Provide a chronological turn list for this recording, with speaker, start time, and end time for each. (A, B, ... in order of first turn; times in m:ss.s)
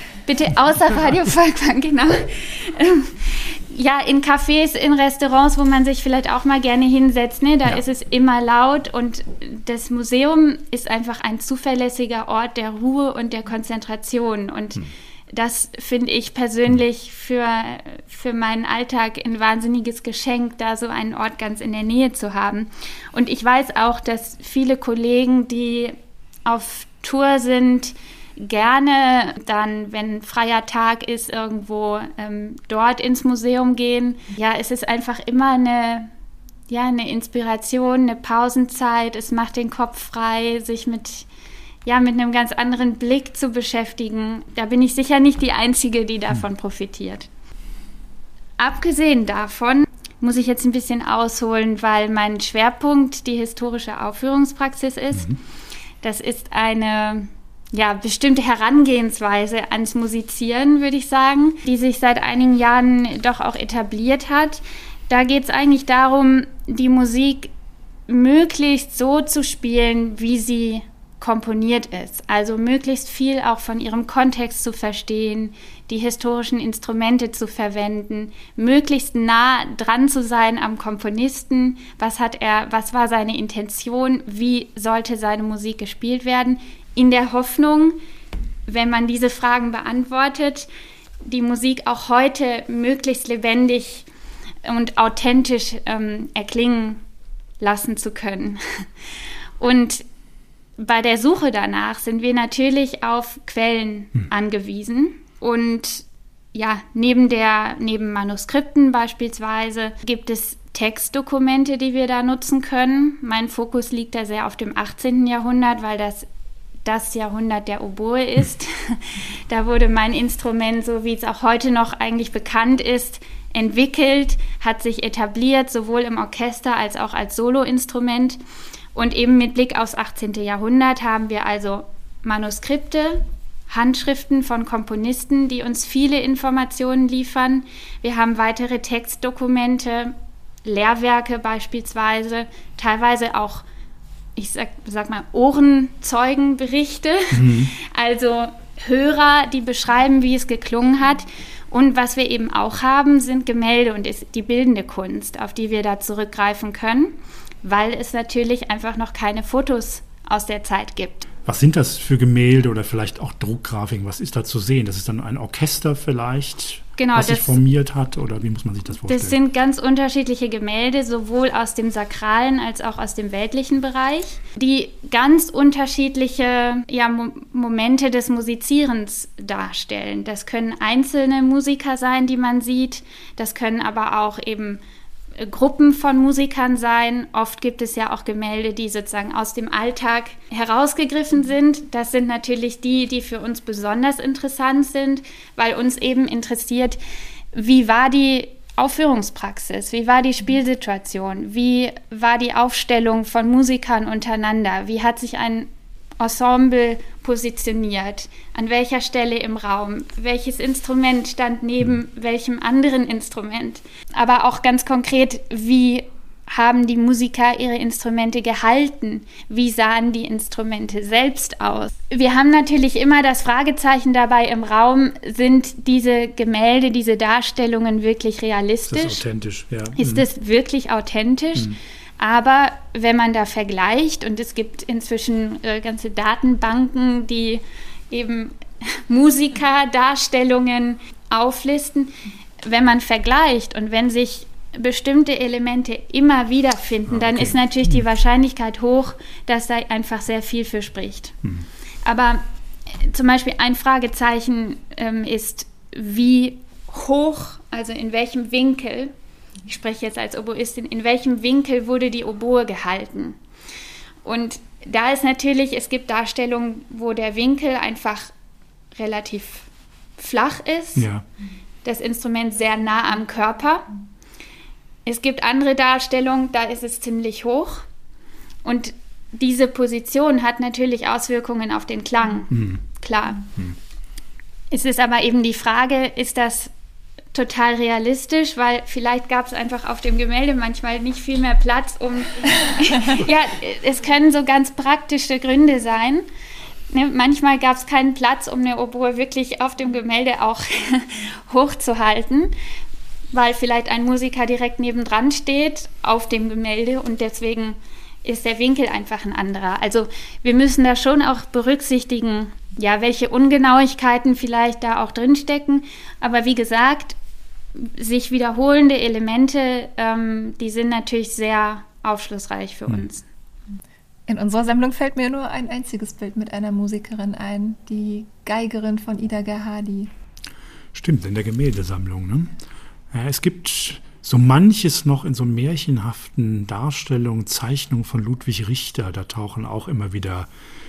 0:00.2-0:36.1 A
0:36.7-0:41.3 A
0:41.8-0:47.3 A
0:48.6-0:55.4 A
0:56.0-1:07.5 A
1:08.1-1:28.0 A
1:28.6-1:30.7 A
1:31.2-1:34.1 A
1:34.6-1:37.0 A
1:37.6-1:38.9 A
1:39.6-1:40.0 A
1:40.8-1:56.3 A
1:56.8-2:08.4 A
2:08.9-2:23.6 A
2:24.4-2:41.3 A
2:27.3-2:27.7 B
2:41.4-2:49.4 B
2:47.0-2:47.6 A
2:49.0-3:04.8 A
3:05.4-3:17.0 A
3:17.5-3:49.2 A
3:48.9-3:50.2 B
3:50.0-4:11.4 A
4:07.1-4:08.0 B
4:12.0-4:19.1 A
4:19.6-4:23.4 A
4:24.2-4:28.3 A
4:28.9-4:31.1 A
4:31.0-4:31.2 B
4:31.8-4:33.9 A
4:35.0-4:37.8 A
4:38.6-4:43.5 A
4:42.5-4:42.8 B
4:44.7-4:46.7 A
4:47.3-4:56.2 A
4:56.9-5:02.5 A
5:03.3-5:17.2 A
5:17.7-5:23.2 A
5:24.3-5:30.1 C
5:30.9-5:32.5 B
5:33.1-5:40.5 B